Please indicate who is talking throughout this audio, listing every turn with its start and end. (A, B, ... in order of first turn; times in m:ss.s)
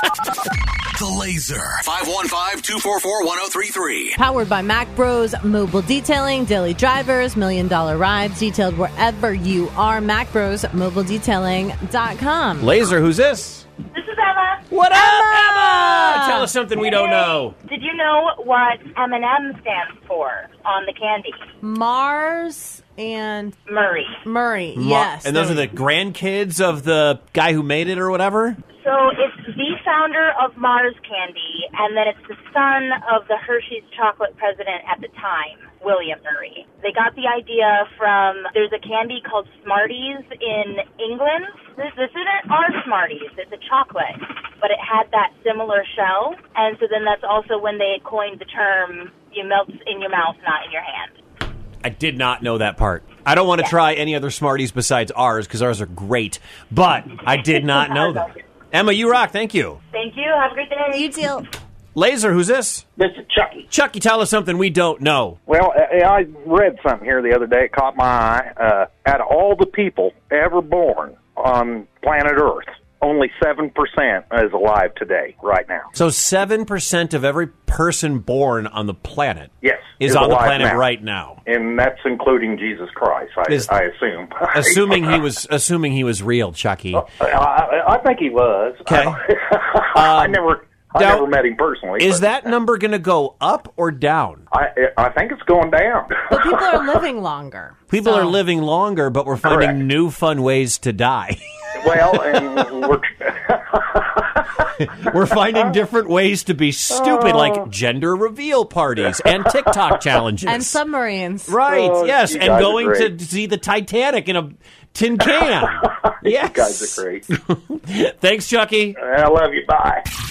0:00.9-0:04.2 A
0:04.2-0:12.7 B
0:12.6-0:13.7 C
0:13.9-0:14.6 D
0:14.7-0:17.6 C
0:14.9-0:16.5 B
0:16.8-0:21.4 D
0:21.6-0:23.6 B
0:23.7-0:24.2 D
0:24.2-0:25.7 B
0:24.8-0:28.6 C
0:28.8-0:51.1 D
0:51.8-0:59.8 C
0:58.0-0:58.2 D
0:59.9-1:01.0 D
1:00.9-1:01.4 B
1:02.0-1:02.8 C
1:03.0-1:03.7 E
1:03.7-1:05.4 C
1:05.5-1:15.9 E
1:15.9-1:21.4 C
1:19.6-1:20.8 E
1:21.4-1:25.2 E
1:23.5-1:23.8 C
1:24.5-1:27.0 C
1:26.9-1:32.4 E
1:28.9-1:29.2 C
1:29.9-1:30.4 C
1:31.0-1:31.3 C
1:32.0-1:34.4 C
1:34.5-1:36.6 E
1:36.3-1:38.4 B
1:37.9-1:42.7 C
1:39.4-1:39.8 E
1:41.8-1:44.6 E
1:44.8-1:50.8 C
1:45.3-1:45.7 E
1:46.9-1:47.7 E
1:49.3-1:50.0 E
1:50.5-1:51.6 B
1:51.5-1:59.0 C
1:51.6-1:53.1 E
1:55.2-1:57.2 E
1:59.0-2:00.0 E